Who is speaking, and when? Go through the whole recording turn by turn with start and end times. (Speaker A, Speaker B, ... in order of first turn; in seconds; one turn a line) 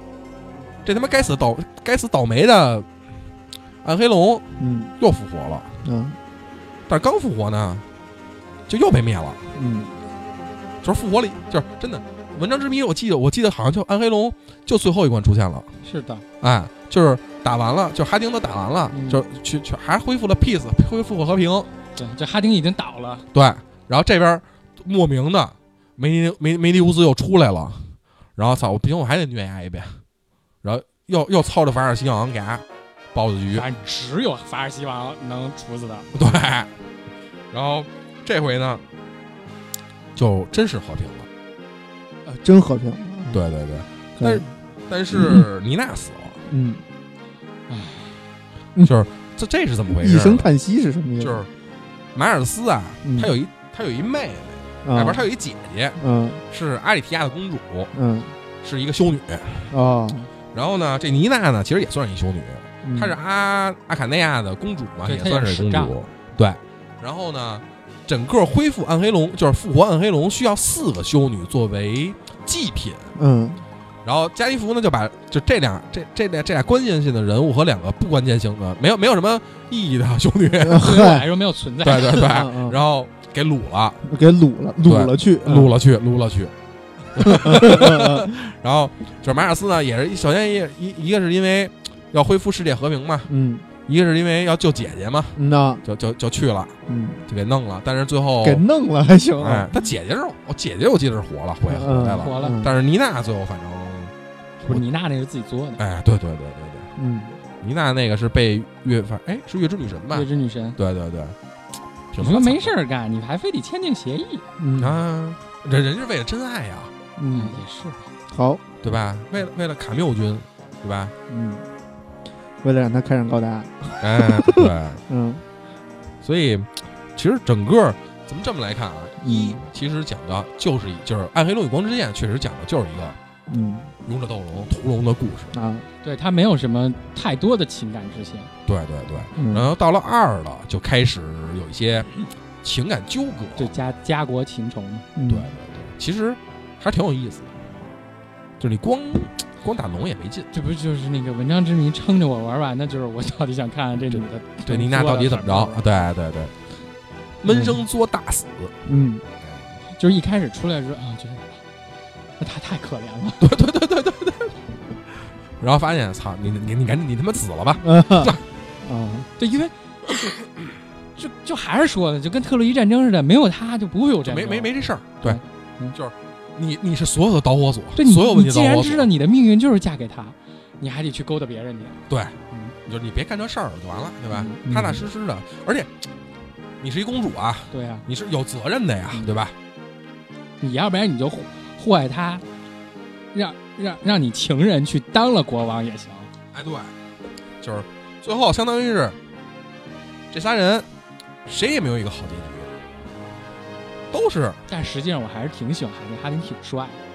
Speaker A: 0.8-2.9
Speaker A: 3.8-4.5
Speaker B: 4.6-4.9
Speaker A: 5.0-5.7
Speaker B: 5.8-6.2
Speaker A: 6.9-7.8
Speaker A: 8.7-9.4
Speaker B: 9.6-9.9
Speaker A: 10.8-15.7
Speaker C: 15.8-16.2
Speaker A: 16.4-21.7
Speaker C: 18.9-19.2
Speaker C: 21.9-23.3
Speaker A: 23.3-30.0
Speaker A: 30.6-33.6
Speaker C: 33.5-36.1
Speaker A: 36.1-36.7
Speaker A: 37.5-38.8
Speaker A: 40.1-41.3
Speaker B: 42.3-43.4
Speaker A: 43.3-46.4
Speaker B: 44.2-44.5
Speaker B: 45.1-45.5
Speaker B: 46.5-46.8
Speaker C: 47.7-48.1
Speaker A: 48.8-50.5
Speaker B: 49.9-51.5
Speaker A: 51.2-51.5
Speaker A: 52.1-57.9
Speaker B: 53.0-53.3
Speaker B: 54.9-55.2
Speaker B: 56.0-56.4
Speaker B: 57.9-58.4
Speaker A: 58.6-59.7
Speaker B: 59.7-60.3
Speaker A: 60.5-73.1
Speaker B: 62.8-63.2
Speaker C: 65.0-65.9
Speaker B: 73.2-73.7
Speaker A: 74.0-81.0
Speaker B: 80.6-81.3
Speaker C: 80.7-82.3
Speaker A: 81.8-84.0
Speaker B: 82.2-82.8
Speaker B: 84.0-85.7
Speaker A: 84.8-86.5
Speaker A: 87.1-93.3
Speaker B: 87.2-88.4
Speaker B: 93.3-93.7
Speaker A: 93.9-96.8
Speaker B: 95.4-95.8
Speaker B: 96.9-97.2
Speaker A: 97.3-98.6
Speaker B: 98.4-99.7
Speaker A: 99.4-104.1
Speaker B: 101.7-102.8
Speaker C: 102.2-102.6
Speaker C: 104.6-105.8
Speaker A: 105.8-106.9
Speaker B: 107.0-107.4
Speaker A: 107.6-111.4
Speaker C: 110.1-110.8
Speaker A: 112.1-112.7
Speaker C: 112.2-114.5
Speaker B: 114.6-115.0
Speaker A: 114.8-116.9
Speaker B: 117.2-117.6
Speaker C: 117.3-118.0
Speaker B: 118.3-118.6
Speaker A: 118.8-121.1
Speaker B: 121.3-121.7
Speaker B: 122.6-125.4
Speaker A: 124.0-125.0
Speaker A: 126.2-133.2
Speaker B: 129.2-129.6
Speaker B: 133.5-133.9
Speaker A: 134.1-135.5
Speaker B: 135.5-135.9
Speaker C: 136.0-138.5
Speaker A: 138.7-143.7
Speaker B: 139.4-139.7
Speaker C: 143.6-145.1
Speaker B: 145.2-145.5
Speaker A: 145.3-147.6
Speaker A: 148.6-150.5
Speaker C: 150.5-155.8
Speaker A: 154.1-156.6
Speaker A: 157.4-158.8
Speaker B: 157.5-157.8
Speaker B: 158.9-159.2
Speaker A: 159.4-159.8
Speaker C: 159.9-161.6
Speaker C: 162.4-163.5
Speaker A: 163.4-164.6
Speaker A: 165.6-168.4
Speaker B: 167.8-169.3
Speaker C: 169.4-169.8
Speaker C: 171.2-174.7
Speaker A: 174.2-175.4
Speaker C: 175.2-175.9
Speaker A: 175.9-179.1
Speaker C: 178.0-182.0
Speaker A: 182.1-185.9
Speaker B: 184.6-185.1
Speaker A: 186.8-189.6
Speaker C: 187.7-188.1
Speaker C: 190.6-192.4
Speaker C: 193.3-196.3
Speaker A: 196.5-196.9
Speaker A: 197.6-199.2
Speaker A: 200.3-200.9
Speaker A: 201.5-202.7
Speaker A: 204.1-204.6
Speaker C: 204.7-207.0